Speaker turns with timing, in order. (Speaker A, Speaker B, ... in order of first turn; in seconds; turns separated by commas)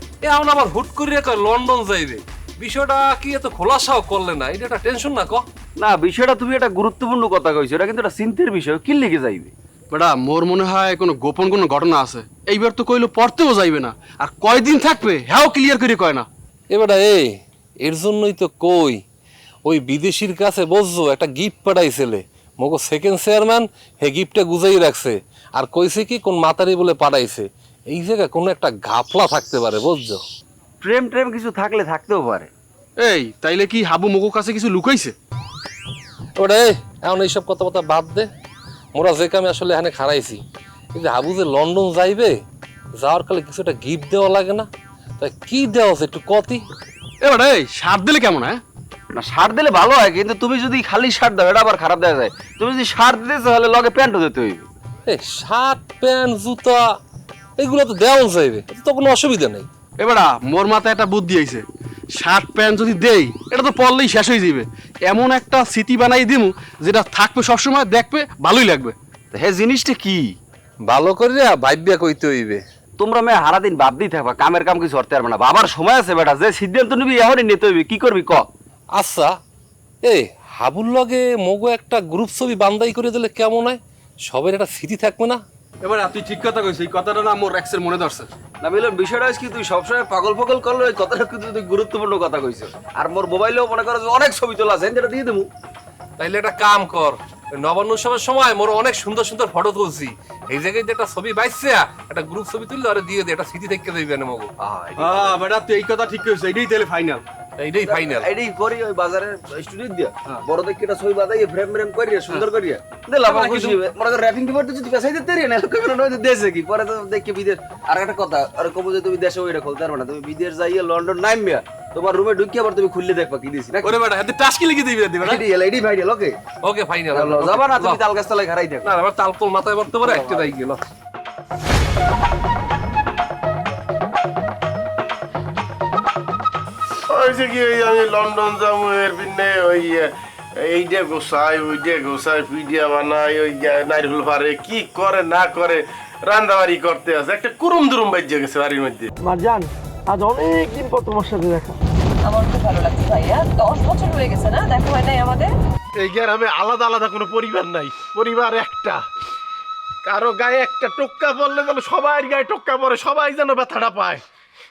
Speaker A: 0.2-5.4, Speaker B: 5.8-9.5, Speaker C: 9.9-16.3, Speaker A: 16.7-19.0, Speaker A: 19.7-30.2, Speaker B: 30.8-32.5, Speaker C: 33.0-35.1, Speaker A: 36.4-38.3, Speaker A: 38.9-40.4, Speaker A: 41.0-42.4, Speaker A: 43.0-44.7, Speaker A: 45.2-46.6, Speaker C: 47.2-48.6, Speaker B: 49.1-54.7, Speaker A: 55.1-56.8, Speaker A: 57.6-59.7, Speaker C: 60.0-61.6, Speaker C: 62.2-69.0, Speaker B: 69.3-70.3, Speaker A: 70.9-72.6, Speaker B: 73.0-78.5, Speaker A: 79.0-79.3, Speaker A: 80.0-85.4, Speaker C: 85.8-88.3, Speaker B: 88.6-95.5, Speaker A: 96.2-104.5, Speaker B: 104.6-105.4, Speaker C: 105.0-107.2, Speaker A: 107.6-108.3, Speaker B: 107.8-124.0, Speaker C: 113.3-113.8, Speaker C: 123.8-125.3, Speaker B: 125.2-126.4, Speaker A: 126.6-128.0, Speaker B: 127.1-128.9, Speaker A: 128.8-130.8, Speaker D: 137.1-149.1, Speaker E: 152.2-155.5, Speaker D: 156.0-159.0, Speaker D: 160.0-164.2